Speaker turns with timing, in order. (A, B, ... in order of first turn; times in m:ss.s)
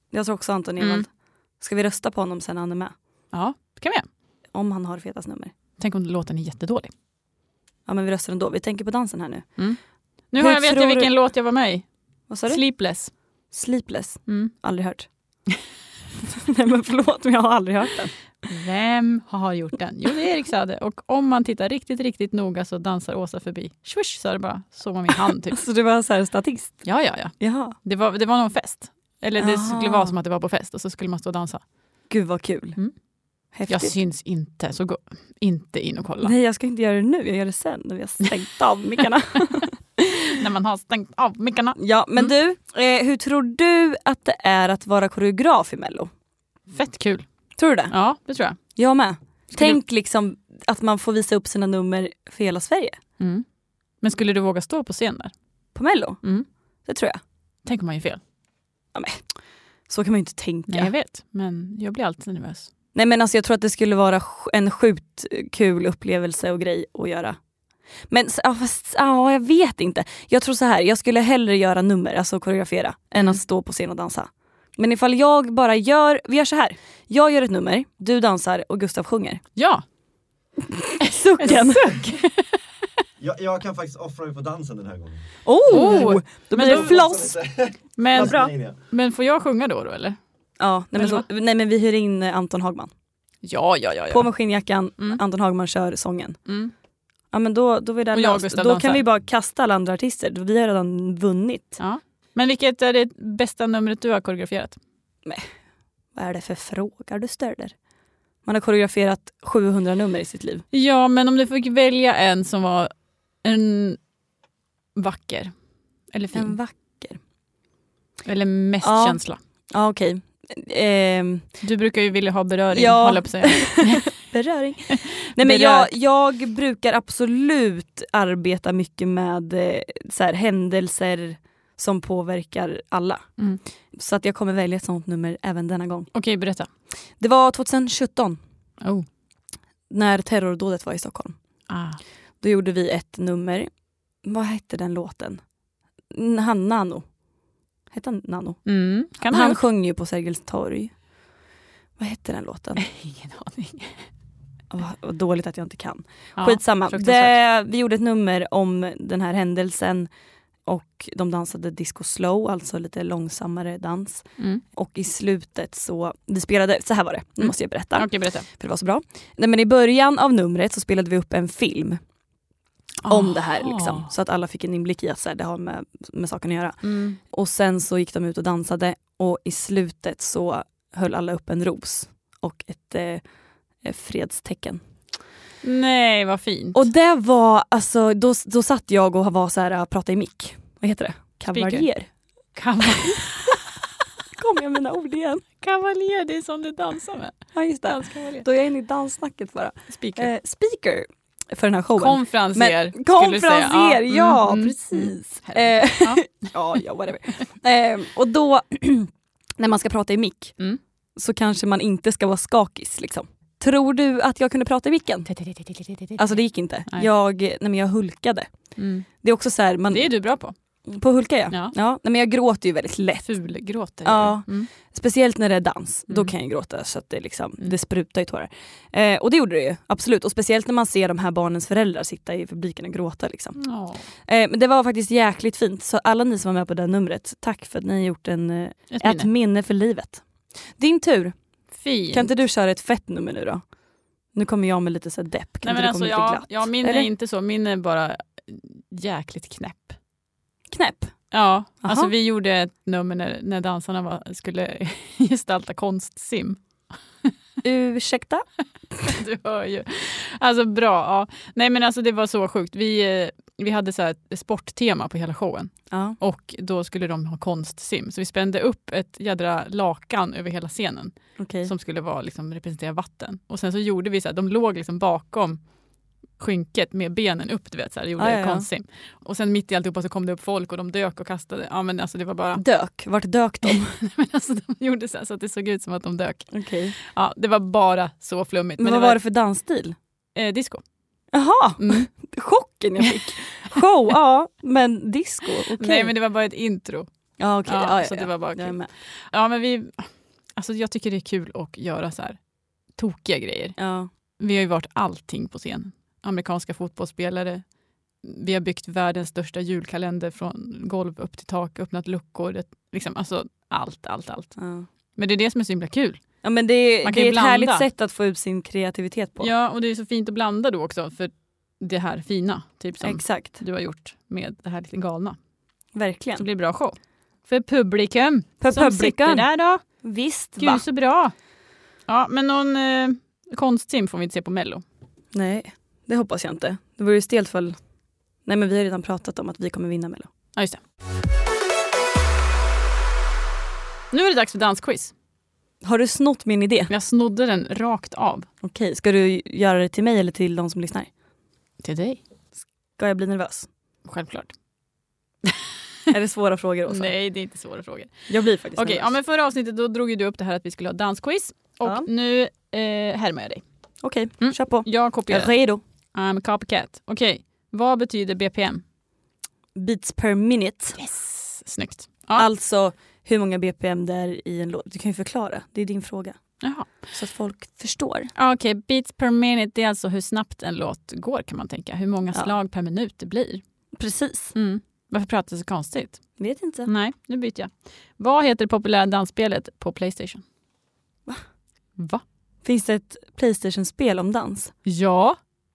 0:00.1-0:01.1 A
0:00.8-0:01.0 B
0:01.6-0:03.0 A
0:03.3-0:04.1 B
0:04.5-0:05.5 A
0:05.8-0:06.9 B
0:07.9-0:09.5 A
0:10.3-0:11.9 B
0:10.4-0:11.1 A
0:12.3-0:12.6 A
0:12.5-0:13.1 B
0:13.5-0:15.1 A
0:14.3-0:14.5 B
0:16.4-0:18.1 A
0:18.5-0:25.6 B
0:25.5-0:26.8 A
0:26.8-0:31.6 B
0:27.4-0:27.8 A
0:29.4-0:30.1 A
0:32.1-0:32.8 A
0:33.5-0:34.0 A
0:33.7-0:36.3 B
0:36.2-0:40.3 A
0:40.3-0:42.3 B
0:41.8-0:46.1 A
0:46.7-0:47.3 B
0:47.6-0:47.9 A
0:47.9-0:48.6 B
0:48.8-0:53.0 A
0:53.2-0:53.4 B
0:54.0-0:55.3 B
0:55.8-0:56.2 A
0:56.9-0:57.2 A
0:57.6-0:58.2 B
0:58.9-0:59.2 A
0:59.9-1:00.9 A
1:00.7-1:02.7 B
1:03.0-1:07.4 A
1:08.1-1:19.4 A
1:19.6-1:19.8 B
1:20.6-1:22.1 A
1:21.4-1:22.4 B
1:23.2-1:28.8 C
1:25.4-1:27.4 A
1:25.7-1:27.1 B
1:28.0-1:30.2 B
1:28.1-1:28.5 A
1:30.6-1:32.9 A
1:31.0-1:31.2 B
1:33.4-1:34.3 B
1:34.1-1:36.4 A
1:36.5-1:36.7 B
1:37.3-1:41.8 A
1:38.1-1:39.0 B
1:41.8-1:44.8 B
1:46.2-1:47.8 A
1:48.4-1:50.6 A
1:50.7-1:52.9 B
1:53.4-1:54.0 B
1:55.0-1:55.5 B
1:56.1-1:56.6 B
1:56.3-1:57.2 A
1:58.2-1:59.4 B
1:58.8-1:59.2 A
1:59.7-2:01.5 A
2:01.6-2:04.1 B
2:02.7-2:13.3 A
2:05.0-2:05.9 B
2:13.9-2:16.1 A
2:16.1-2:16.7 B
2:17.2-2:18.4 A
2:18.8-2:19.1 B
2:19.9-2:21.4 A
2:21.7-2:22.0 B
2:22.4-2:23.7 A
2:24.2-2:25.4 A
2:26.1-2:27.1 A
2:27.9-2:28.6 A
2:28.7-2:29.6 B
2:29.2-2:30.9 A
2:32.0-2:32.8 A
2:32.8-2:34.0 B
2:34.7-2:40.1 A
2:36.4-2:37.4 B
2:40.6-2:52.0 A
2:47.4-2:48.5 B
2:53.0-2:54.1 B
2:53.1-3:03.2 A
2:56.8-2:57.2 B
3:03.8-3:04.8 A
3:05.6-3:06.8 B
3:06.7-3:12.1 A
3:11.5-3:11.9 B
3:12.6-3:13.6 B
3:12.9-3:13.3 A
3:14.4-3:15.5 A
3:15.6-3:18.4 B
3:17.5-3:30.6 A
3:19.9-3:20.3 B
3:22.0-3:26.3 B
3:31.2-3:35.3 A
3:35.3-3:36.4 B
3:36.2-3:38.5 A
3:38.8-3:39.1 B
3:39.2-3:40.1 A
3:39.9-3:40.6 B
3:40.9-3:43.3 A
3:43.2-3:44.7 B
3:44.0-3:53.6 A
3:53.6-3:54.0 B
3:54.3-4:01.4 A
3:58.9-3:59.3 B
4:01.8-4:02.3 B
4:02.1-4:03.6 A
4:04.3-4:07.1 A
4:05.6-4:10.0 B
4:10.7-4:11.2 A
4:11.3-4:16.6 B
4:11.8-4:12.1 A
4:17.6-4:18.4 A
4:19.0-4:35.6 B
4:25.9-4:26.2 A
4:31.4-4:31.7 A
4:36.4-4:42.6 B
4:38.2-4:38.7 A
4:42.6-4:44.0 A
4:43.7-4:49.2 B
4:46.5-4:47.0 A
4:48.8-4:50.0 A
4:50.4-4:50.8 B
4:51.3-4:56.1 A
4:51.8-4:52.1 B
4:55.8-4:57.1 B
4:57.4-4:58.9 A
4:57.7-5:02.4 B
5:03.0-5:03.8 B
5:03.8-5:04.1 A
5:04.4-5:07.6 B
5:08.2-5:14.6 B
5:14.6-5:14.9 A
5:15.2-5:16.2 B
5:16.4-5:19.5 A
5:17.0-5:17.9 B
5:19.4-5:25.4 B
5:23.0-5:23.6 A
5:26.0-5:26.4 A
5:26.4-5:27.0 B
5:27.5-5:29.8 B
5:28.6-5:29.5 A
5:30.0-5:30.8 A
5:30.6-5:31.3 B
5:32.1-5:34.8 B
5:35.3-5:37.8 A
5:38.4-5:40.3 A
5:44.1-5:45.1 B
5:45.8-5:46.9 A
5:46.9-5:48.5 B
5:48.6-5:51.1 A
5:51.8-5:52.2 B
5:53.0-5:53.7 A
5:54.0-5:54.5 B
5:56.1-5:57.1 A
5:56.9-6:03.6 B
5:58.3-5:59.1 A
6:04.0-6:05.8 A
6:04.4-6:05.5 B
6:06.1-6:08.8 B
6:09.8-6:11.0 A
6:11.0-6:12.5 B
6:12.4-6:16.4 A
6:16.6-6:16.9 B
6:17.1-6:18.3 A
6:18.4-6:23.6 B
6:24.0-6:24.5 A
6:24.6-6:26.2 B
6:26.4-6:26.9 A
6:26.9-6:30.4 B
6:32.0-6:32.2 B
6:32.6-6:34.7 A
6:34.8-6:35.4 B